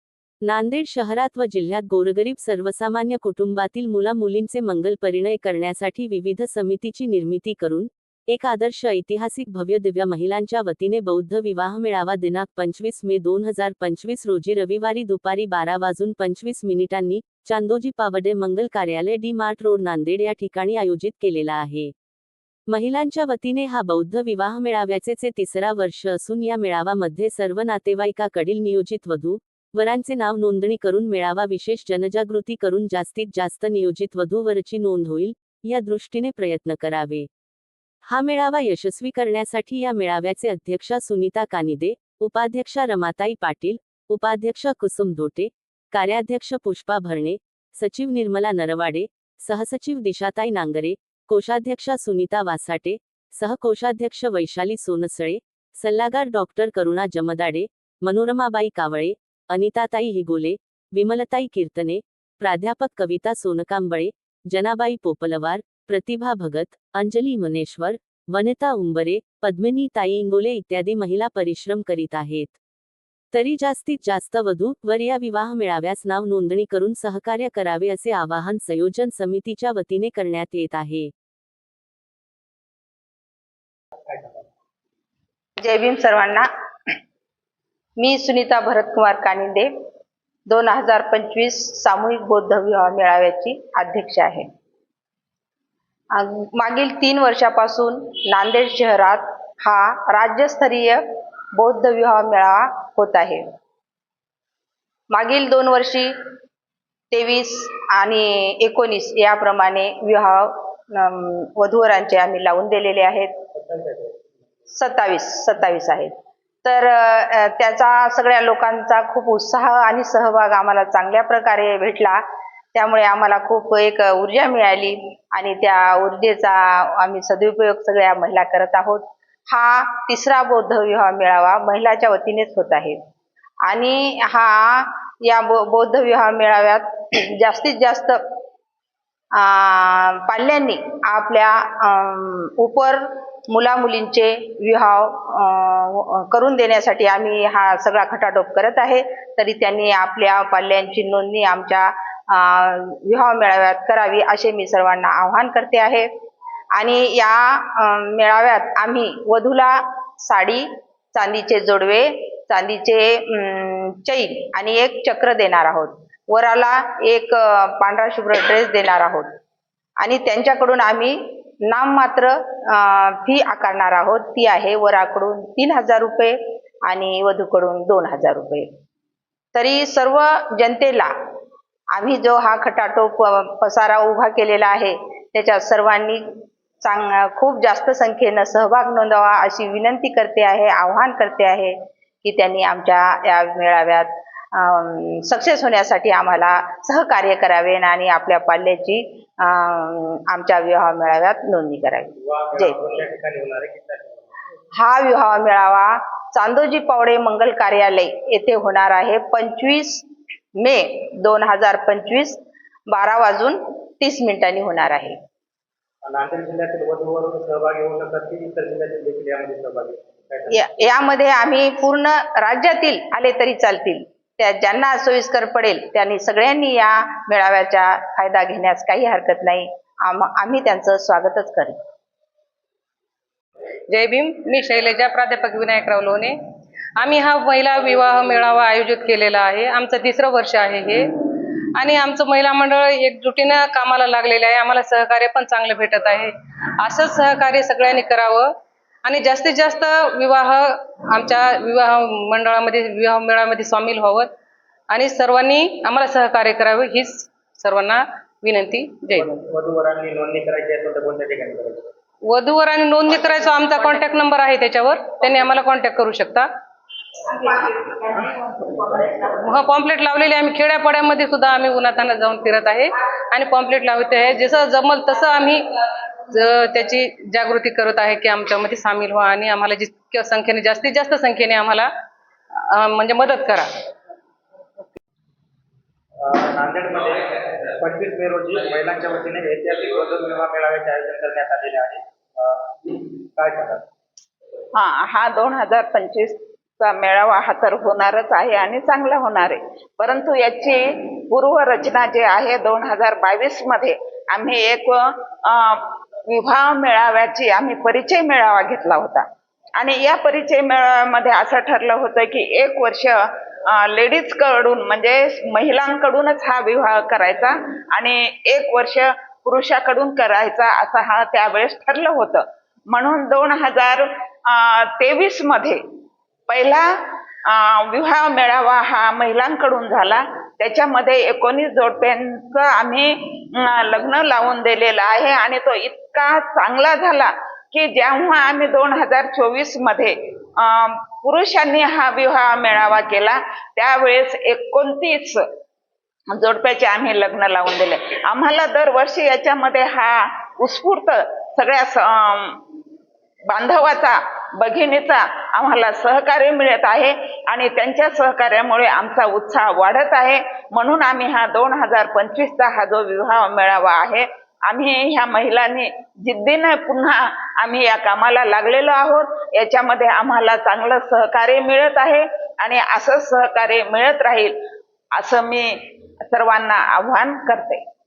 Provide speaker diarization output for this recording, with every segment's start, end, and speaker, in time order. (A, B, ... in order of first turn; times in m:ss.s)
0:00.5-0:21.9 A
0:22.7-0:37.3 A
0:38.1-1:12.6 A
1:13.3-1:21.1 A
1:24.1-1:24.4 B
1:25.6-1:26.5 C
1:28.0-1:29.7 C
1:30.5-1:34.4 C
1:36.1-1:41.0 C
1:41.6-1:43.4 C
1:45.1-1:46.1 C
1:47.1-1:53.3 C
1:53.5-1:54.2 B
1:54.7-1:56.1 C
1:56.6-2:02.2 C
2:02.7-2:13.0 C
2:13.6-2:18.2 C
2:19.4-2:36.1 C
2:36.8-2:49.3 C
2:50.0-2:58.7 C
2:59.6-3:01.1 C
3:01.9-3:06.2 C
3:06.8-3:22.8 C
3:22.2-3:24.3 B
3:24.8-3:30.1 C
3:30.6-3:32.4 C
3:32.9-3:35.2 C
3:36.0-3:40.6 B
3:40.5-3:51.8 C
3:53.9-3:56.4 D
3:57.0-4:01.2 D
4:01.8-4:08.5 D
4:09.0-4:14.3 D
4:14.9-4:19.3 D
4:19.1-4:21.9 B
4:22.3-4:26.5 D
4:27.3-4:41.9 D
4:42.6-4:43.9 D
4:46.2-4:53.8 B
4:54.8-5:09.2 E
5:09.8-5:25.8 E
5:26.5-5:26.9 E
5:27.5-5:45.4 E
5:46.3-5:52.6 E
5:53.5-6:14.6 E
6:15.2-6:17.8 E